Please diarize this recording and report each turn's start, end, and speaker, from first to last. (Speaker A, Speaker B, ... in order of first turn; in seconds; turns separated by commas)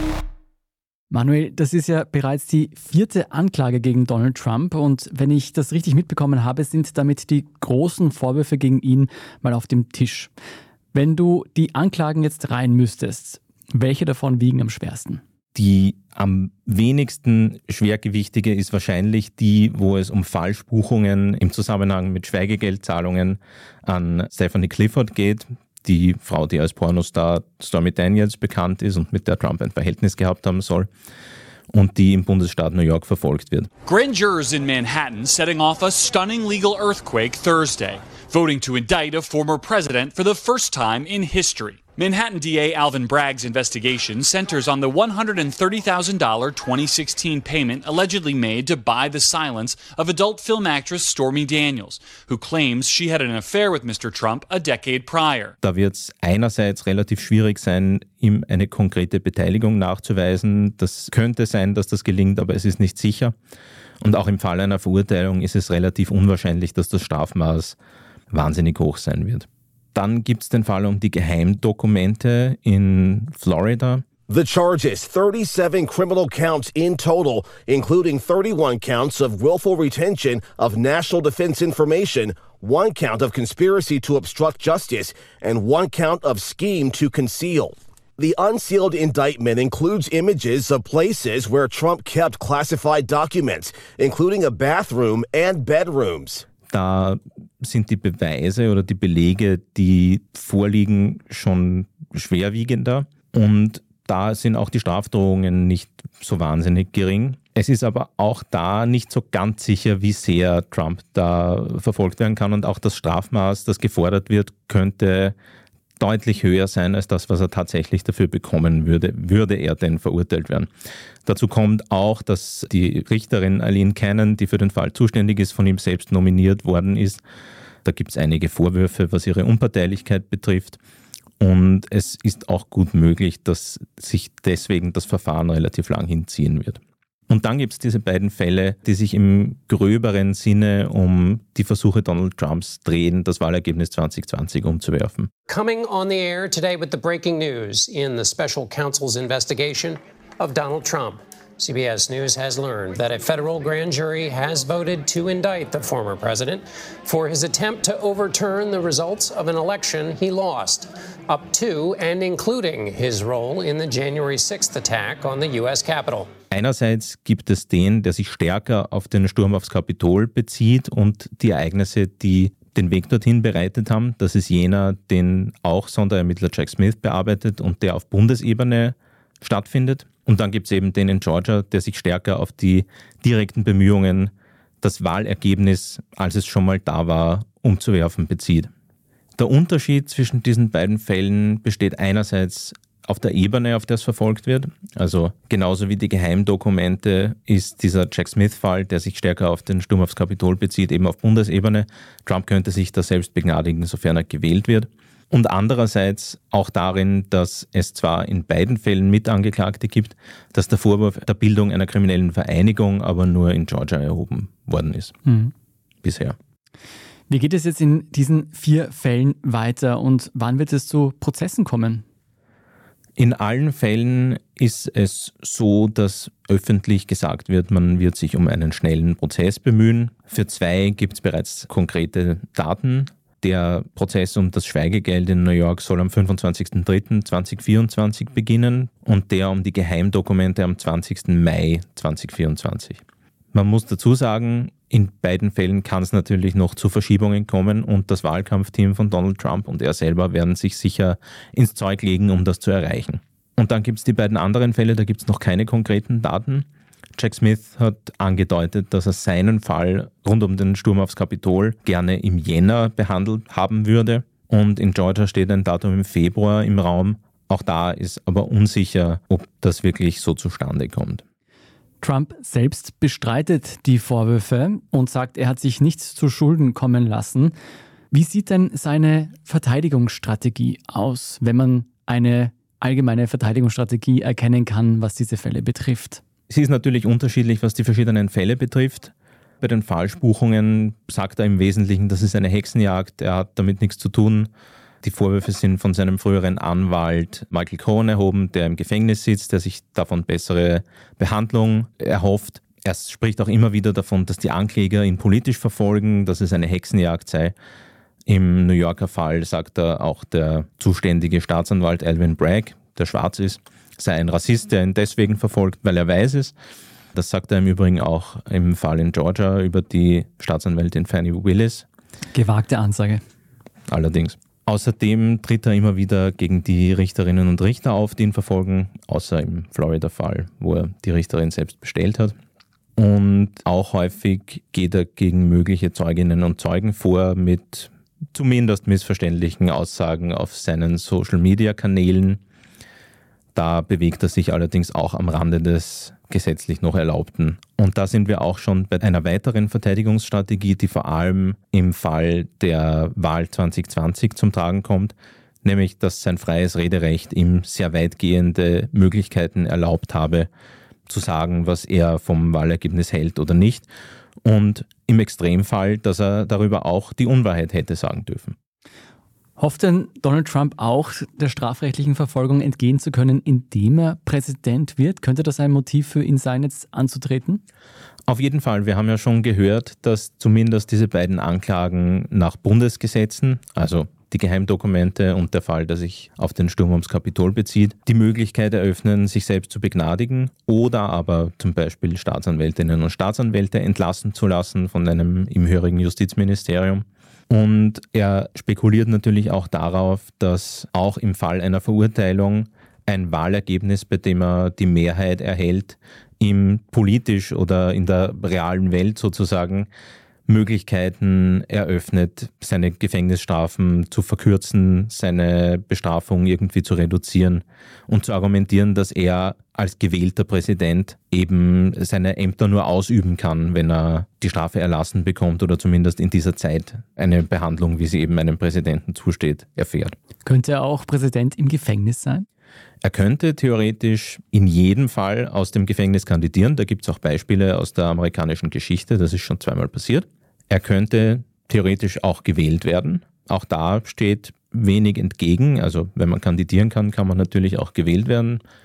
Speaker A: 1.1-10.3, Speaker A: 10.9-15.2, Speaker B: 15.5-30.9, Speaker B: 31.7-33.7, Speaker C: 33.8-55.5, Speaker B: 55.6-63.3, Speaker B: 64.0-67.8, Speaker B: 68.3-74.0, Speaker D: 74.3-96.5, Speaker B: 96.7-115.3, Speaker B: 116.0-120.7, Speaker B: 121.2-127.2, Speaker B: 127.8-130.8, Speaker B: 131.4-145.3, Speaker E: 145.5-166.3, Speaker B: 166.5-188.7, Speaker B: 189.4-215.2, Speaker A: 215.2-215.5, Speaker B: 216.0-216.4, Speaker A: 217.3-222.0, Speaker B: 223.2-243.0, Speaker B: 243.5-271.2, Speaker A: 272.0-277.5, Speaker A: 278.1-286.2, Speaker B: 286.5-294.5, Speaker B: 295.0-307.5, Speaker B: 308.2-316.5, Speaker B: 317.1-321.9, Speaker A: 322.3-323.2, Speaker B: 323.9-332.4, Speaker B: 333.0-342.4, Speaker B: 343.5-360.5, Speaker B: 361.1-363.9, Speaker B: 364.4-368.6, Speaker A: 369.6-377.6, Speaker B: 378.3-409.9, Speaker B: 410.5-430.1, Speaker A: 430.4-432.4, Speaker B: 433.0-448.6